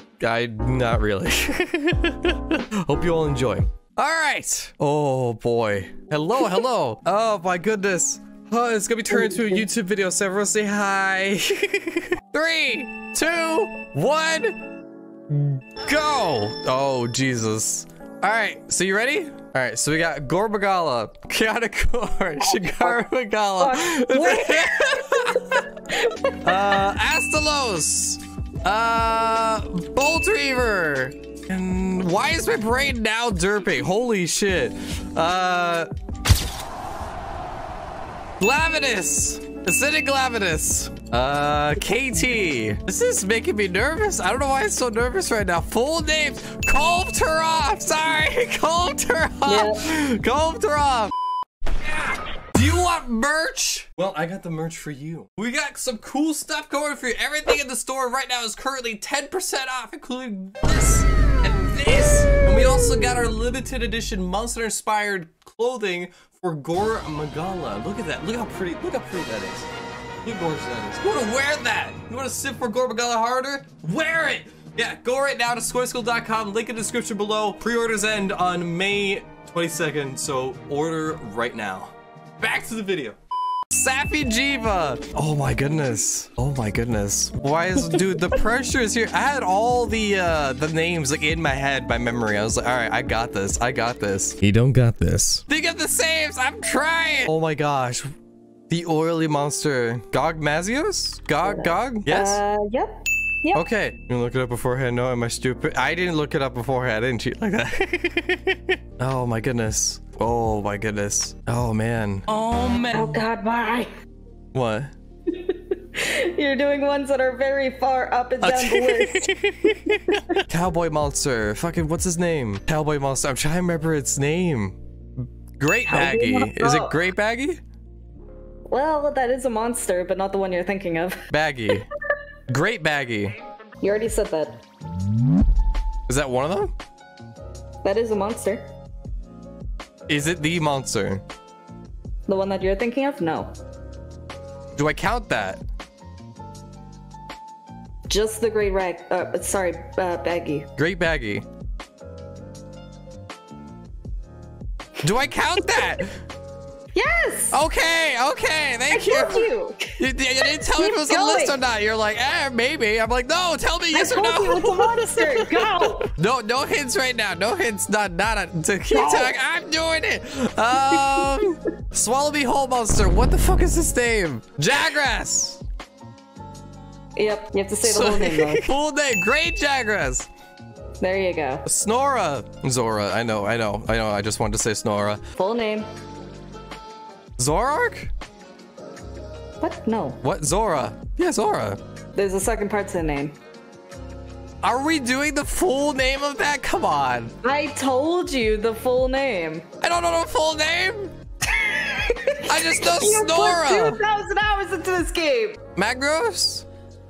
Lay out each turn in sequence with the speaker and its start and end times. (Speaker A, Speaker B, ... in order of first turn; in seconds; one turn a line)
Speaker A: 0.2-14.6
Speaker B: 9.1-9.6
Speaker A: 15.3-25.6
Speaker B: 22.4-23.0
Speaker B: 23.6-25.1
Speaker B: 25.9-26.7
Speaker A: 26.4-35.9
Speaker A: 38.4-51.1
Speaker B: 49.5-49.8
Speaker A: 51.8-69.7
Speaker A: 70.2-83.2
Speaker A: 83.7-98.1
Speaker A: 98.7-102.4
Speaker B: 101.4-103.6
Speaker A: 103.5-113.2
Speaker B: 112.9-113.9
Speaker A: 114.5-114.9
Speaker B: 115.3-119.3
Speaker A: 118.4-124.8
Speaker A: 125.6-127.6
Speaker B: 125.9-127.0
Speaker B: 128.7-131.2
Speaker A: 131.3-131.9
Speaker A: 132.5-133.3
Speaker B: 133.8-134.6
Speaker A: 136.1-136.7
Speaker B: 137.8-138.7
Speaker A: 140.1-141.2
Speaker B: 142.3-143.5
Speaker A: 144.8-145.6
Speaker B: 148.1-150.7
Speaker A: 150.8-151.4
Speaker A: 155.0-156.1
Speaker B: 156.9-157.6
Speaker A: 157.5-175.6
Speaker B: 158.9-161.6
Speaker B: 163.9-166.0
Speaker B: 168.9-169.3
Speaker B: 177.2-178.6
Speaker A: 177.8-180.3
Speaker B: 181.0-181.6
Speaker A: 181.7-185.2
Speaker B: 185.3-185.9
Speaker A: 187.4-188.1
Speaker B: 189.6-190.2
Speaker A: 190.2-191.8
Speaker B: 192.1-193.3
Speaker A: 194.6-197.3
Speaker B: 197.4-199.6
Speaker A: 199.8-201.1
Speaker B: 201.6-205.6
Speaker A: 202.4-204.0
Speaker A: 205.8-206.7